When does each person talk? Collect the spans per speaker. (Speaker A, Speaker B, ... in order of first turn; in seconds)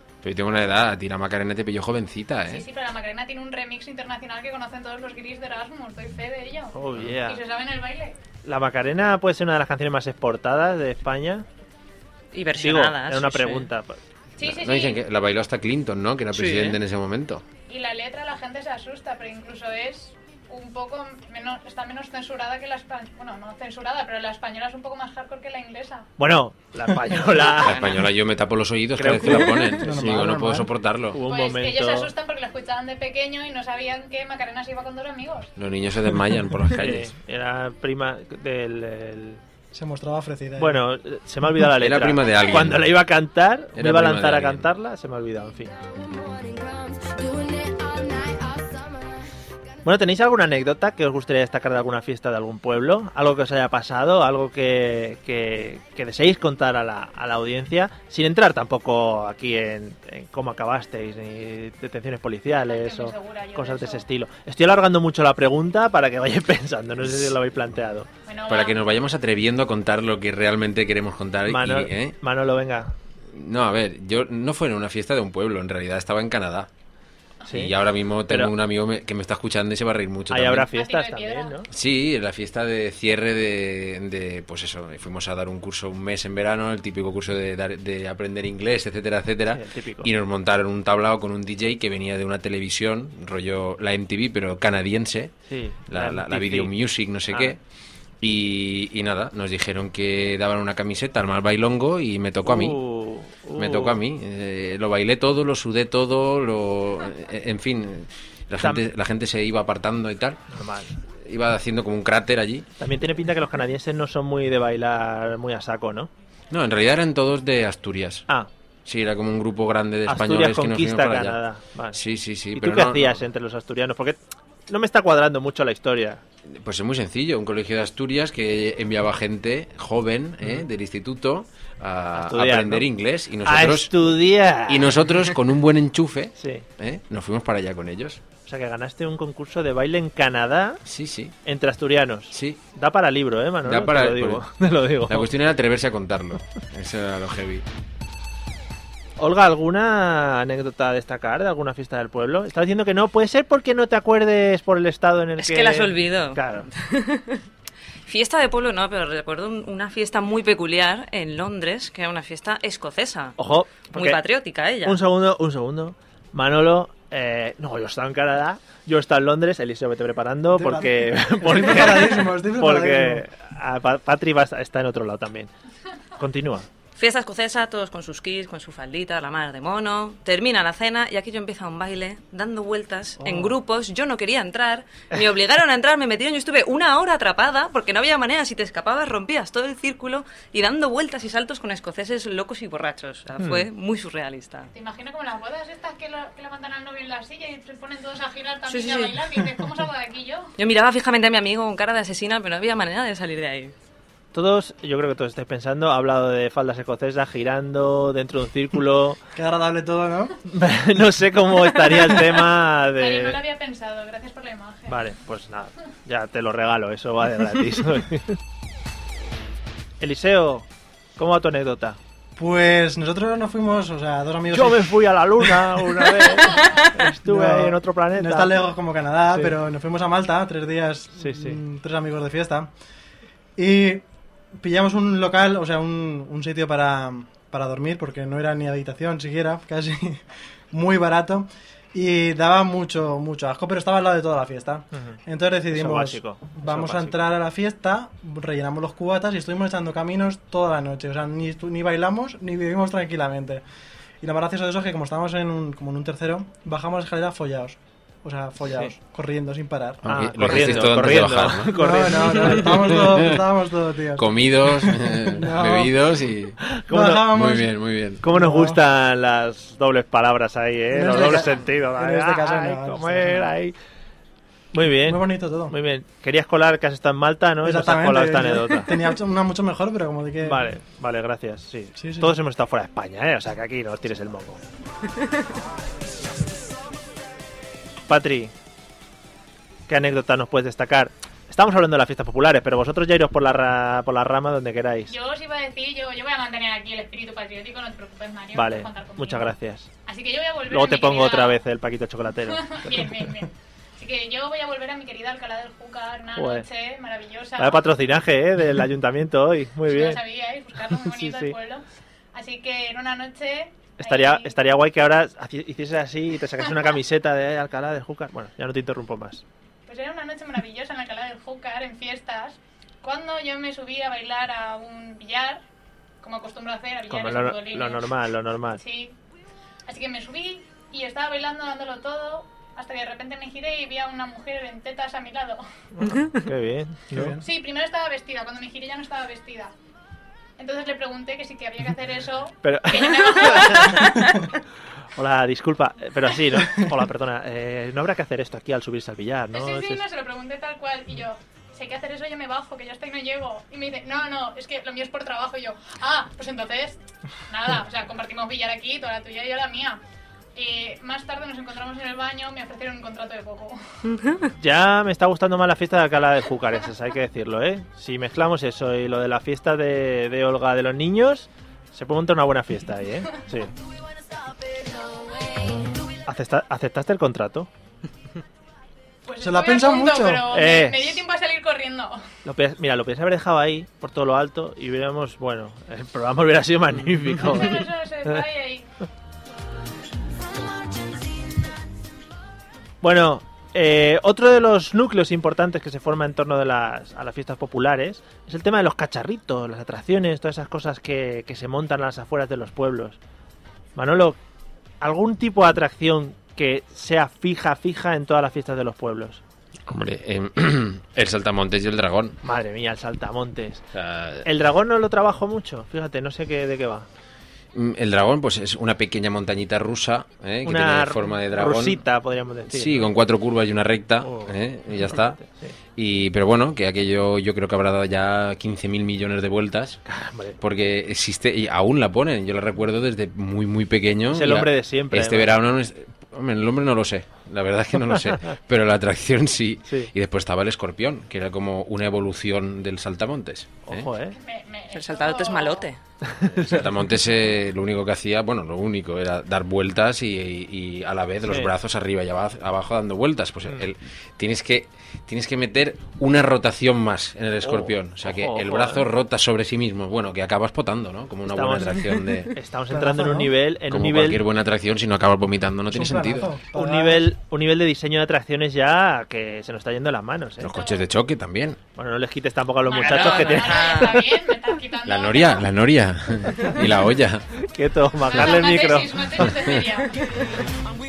Speaker A: 0.2-2.6, 14.4-17.4, 27.6-31.2, 35.6-37.1, 41.6-42.9, 43.8-44.7, 68.5-72.2, 73.3-76.7, 77.5-80.7, 81.7-95.3, 95.9-97.6, 98.2-102.8, 103.6-110.4, 111.2-112.7, 116.5-118.2, 118.9-121.4, 121.9-123.2, 126.5-134.1, 134.7-138.2, 140.8-141.3, 142.3-142.6, 143.7-144.4, 145.1-147.6, 260.0-261.8, 262.3-263.4, 264.2-266.6, 267.3-268.2, 409.9-412.4, 413.9-414.5, 417.7-422.0, 422.7-425.4, 426.0-430.0, 430.6-444.1, 446.5-462.5, 463.9-466.5, 470.6-471.8, 475.1-477.5
Speaker B: 2.5-8.2, 14.4-15.0, 17.7-26.1, 31.3-35.5, 62.5-64.0, 68.3-68.8, 80.7-81.6, 194.7-200.5, 213.0-215.1, 295.1-299.6, 300.1-301.6, 302.5-307.9, 309.9-311.8, 312.3-314.6, 319.9-325.6, 326.2-328.1, 328.8-329.2, 329.9-335.6, 337.4-339.7, 340.6-344.3, 349.5-360.0, 360.6-363.8, 379.3-382.2, 387.4-388.9, 444.4-445.9, 472.9-475.7, 478.3-480.6
Speaker C: 6.7-7.4, 8.4-11.4, 12.6-14.0, 26.2-27.8, 29.0-30.3, 31.1-32.1, 36.8-39.4, 40.6-45.7, 49.8-68.1, 71.5-72.9, 77.5-77.7, 78.3-78.5, 80.3-81.7, 89.5-90.1, 95.5-96.7, 97.3-97.5, 102.4-104.0, 110.5-110.9, 112.8-116.1, 120.1-122.0, 122.5-126.2, 132.1-132.9, 133.4-135.0, 136.4-136.7, 138.5-140.8, 141.5-145.3, 149.2-156.7, 163.4-164.2, 164.8-175.5, 176.2-176.7, 183.2-183.6, 193.4-193.7, 204.3-209.2, 210.5-213.4, 214.9-218.4, 220.0-222.0, 224.5-228.6, 231.2-231.6, 244.9-245.2, 245.7-247.2, 260.1-263.0, 266.6-267.3, 268.2-273.7, 274.7-278.9, 280.4-284.6, 288.1-288.5, 289.9-295.1, 298.6-299.9, 300.7-302.9, 306.4-306.7, 307.6-310.2, 311.1-311.6, 314.0-319.4, 327.1-328.8, 336.0-337.4, 342.6-344.2, 345.2-350.0, 364.6-373.7, 376.3-377.7, 380.5-381.2, 382.4-388.4, 393.0-403.2, 404.0-404.4, 405.0-409.4, 412.4-413.8, 414.4-417.1, 420.6-423.1, 424.2-425.8, 430.1-430.6, 434.3-435.6, 439.9-440.1, 443.9-444.4, 446.2-446.9, 451.5-451.7, 457.6-459.1, 461.4-464.4, 466.7-470.8, 472.0-474.3, 477.6-479.5
Speaker D: 12.3-13.7, 16.3-16.8, 155.4-157.4, 158.1-163.3, 163.9-165.0, 177.0-194.7, 198.7-199.2, 200.6-203.7, 364.1-364.5, 444.9-446.0, 473.0-474.2
Speaker E: 29.9-30.7, 39.7-40.8, 170.5-173.2, 209.3-210.4, 222.4-225.8, 227.0-232.7, 233.6-234.1, 234.6-253.6, 254.2-260.8, 261.8-266.0, 266.9-267.7, 268.2-268.8, 270.9-273.5, 275.0-275.8, 277.6-280.7, 282.0-282.4, 337.1-337.4, 379.4-380.4, 462.9-463.5, 465.9-467.3